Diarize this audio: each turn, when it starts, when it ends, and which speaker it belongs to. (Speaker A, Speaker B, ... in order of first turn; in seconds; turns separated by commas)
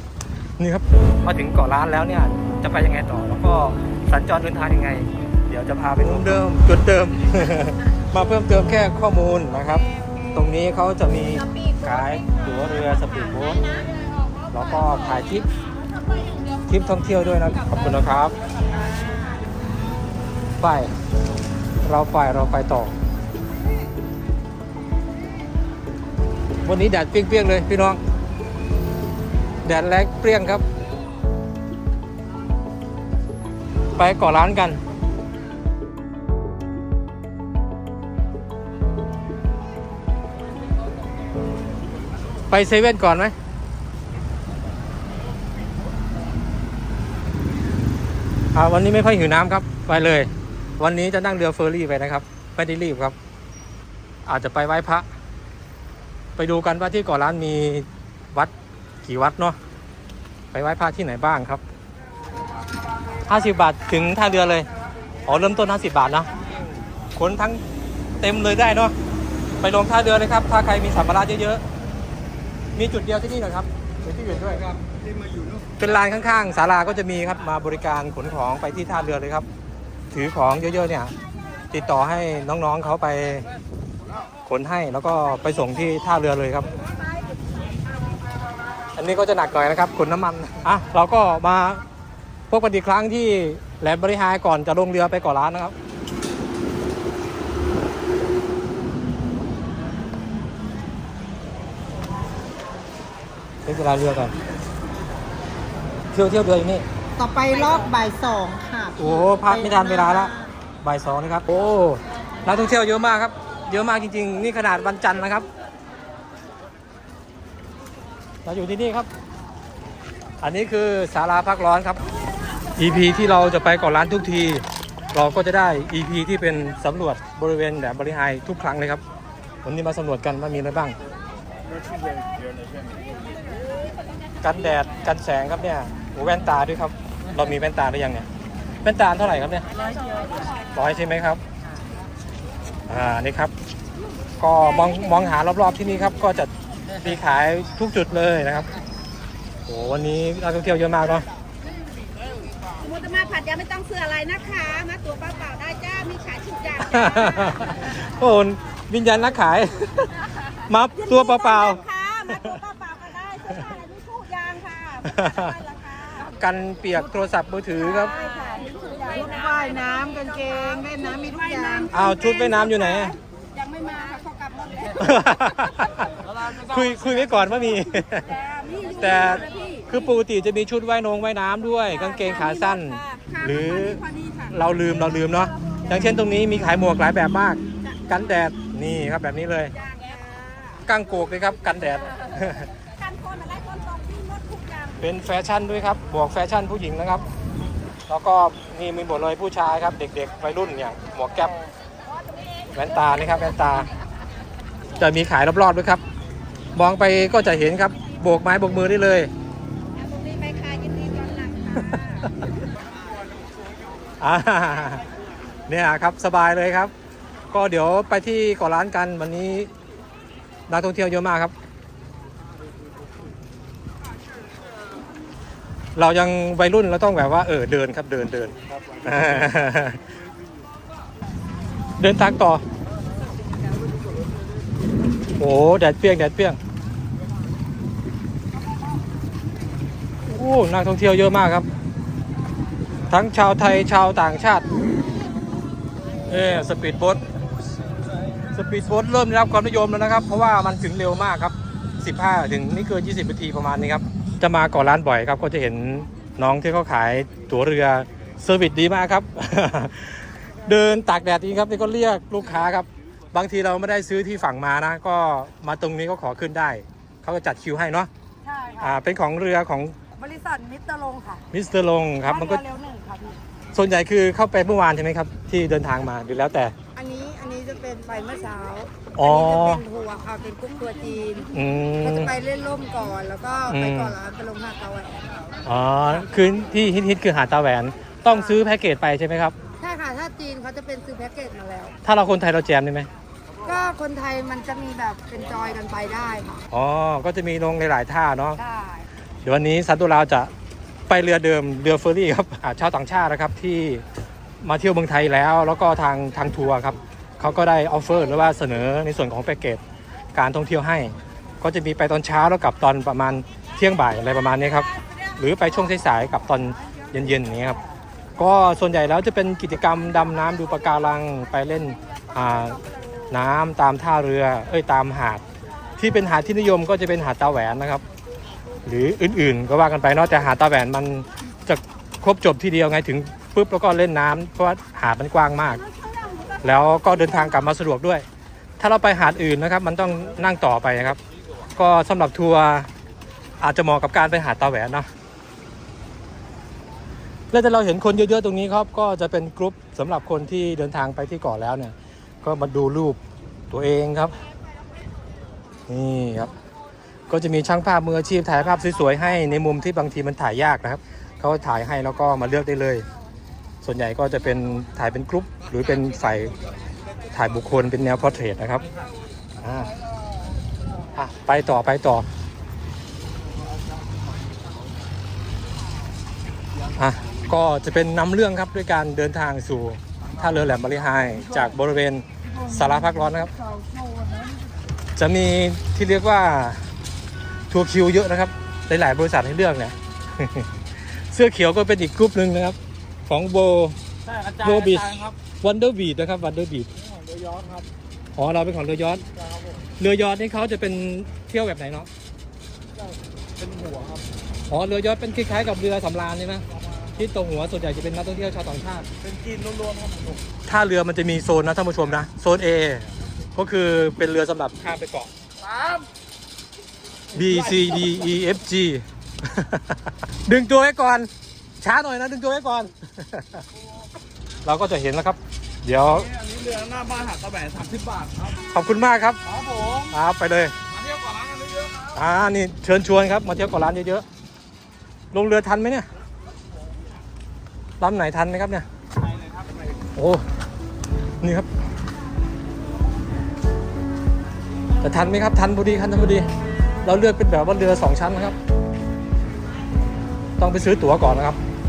Speaker A: 0.6-13.7, Speaker B: 11.5-12.2, Speaker A: 14.5-15.5, Speaker A: 16.7-18.4, Speaker A: 20.6-20.9, Speaker A: 21.8-22.9, Speaker A: 26.6-28.0, Speaker A: 29.6-30.6, Speaker A: 34.0-34.8, Speaker A: 42.5-43.4, Speaker A: 48.5-53.2, Speaker A: 54.3-55.0, Speaker A: 56.4-58.5, Speaker A: 59.0-59.6, Speaker A: 60.5-61.6, Speaker A: 63.3-64.7, Speaker A: 65.3-66.3, Speaker A: 67.2-67.6, Speaker A: 68.2-69.0, Speaker A: 69.6-71.6, Speaker A: 72.8-74.7, Speaker A: 75.8-79.5, Speaker A: 80.1-81.1, Speaker A: 81.7-83.5, Speaker A: 84.5-86.7, Speaker A: 89.0-91.8, Speaker A: 92.5-95.8, Speaker A: 103.7-104.3, Speaker A: 106.1-106.9, Speaker C: 107.2-110.5, Speaker A: 109.0-110.3, Speaker A: 110.8-115.5, Speaker A: 118.5-119.1, Speaker A: 120.4-122.0, Speaker A: 122.8-129.0, Speaker A: 129.6-131.0, Speaker A: 134.4-138.3, Speaker A: 138.8-139.7, Speaker A: 140.7-141.4, Speaker A: 142.9-143.5, Speaker A: 144.4-148.7, Speaker A: 149.7-151.3, Speaker B: 152.8-157.7, Speaker A: 156.8-162.6, Speaker B: 161.0-166.3, Speaker A: 165.1-165.6, Speaker A: 166.2-168.2, Speaker B: 167.8-175.3, Speaker C: 169.1-172.1, Speaker A: 171.9-173.2, Speaker A: 174.9-178.4, Speaker B: 178.3-179.9, Speaker A: 179.0-189.7, Speaker B: 181.9-184.6, Speaker B: 189.8-190.8, Speaker A: 190.8-192.7, Speaker B: 193.0-195.0, Speaker A: 195.0-197.2, Speaker A: 198.1-201.5, Speaker B: 202.2-202.6, Speaker A: 202.7-203.9, Speaker A: 205.0-206.0, Speaker A: 206.8-209.3, Speaker B: 209.9-212.3, Speaker A: 214.2-215.1, Speaker A: 215.7-216.9, Speaker A: 217.5-219.7, Speaker A: 220.7-221.5, Speaker A: 226.0-230.1, Speaker A: 232.0-232.6, Speaker A: 235.4-236.6, Speaker A: 240.3-241.7, Speaker A: 243.1-244.7, Speaker A: 246.3-247.2, Speaker A: 248.5-268.1, Speaker C: 268.5-268.9, Speaker A: 268.8-270.0, Speaker C: 270.2-271.4, Speaker A: 271.5-272.6, Speaker C: 272.3-273.4, Speaker A: 273.7-276.7, Speaker C: 276.9-285.3, Speaker A: 279.1-279.8, Speaker A: 281.5-282.3, Speaker A: 283.7-284.2, Speaker A: 285.6-289.6, Speaker C: 288.3-288.6, Speaker C: 289.8-292.0, Speaker A: 292.0-293.1, Speaker C: 293.6-296.6, Speaker A: 296.7-298.6, Speaker C: 298.6-299.0, Speaker A: 299.4-300.5, Speaker A: 301.1-304.1, Speaker A: 304.6-309.8, Speaker A: 310.4-317.8, Speaker A: 318.4-322.8, Speaker A: 323.3-325.4, Speaker A: 326.0-328.0, Speaker A: 328.9-335.8, Speaker B: 335.9-336.6, Speaker A: 336.6-338.2, Speaker A: 338.8-341.2, Speaker A: 341.8-342.9, Speaker A: 343.6-345.1, Speaker A: 347.5-353.2, Speaker A: 353.7-354.4, Speaker A: 355.9-356.5, Speaker A: 357.3-363.1, Speaker A: 363.8-366.5, Speaker A: 367.3-368.9, Speaker A: 369.6-369.9, Speaker A: 371.1-372.2, Speaker A: 376.9-383.5, Speaker A: 385.2-386.9, Speaker A: 387.7-396.9, Speaker D: 397.3-397.8, Speaker A: 398.4-399.2, Speaker A: 400.0-402.1, Speaker D: 403.6-404.2, Speaker A: 404.7-409.1, Speaker D: 409.3-410.4, Speaker A: 410.7-415.3, Speaker A: 417.3-421.3, Speaker A: 421.8-423.6, Speaker A: 424.6-426.3, Speaker D: 426.6-428.4, Speaker A: 428.5-430.7, Speaker A: 432.1-434.2, Speaker A: 435.3-436.1, Speaker A: 438.0-438.9, Speaker A: 440.2-440.4, Speaker A: 441.4-441.7, Speaker A: 445.0-446.5, Speaker A: 447.0-448.6, Speaker A: 450.6-451.6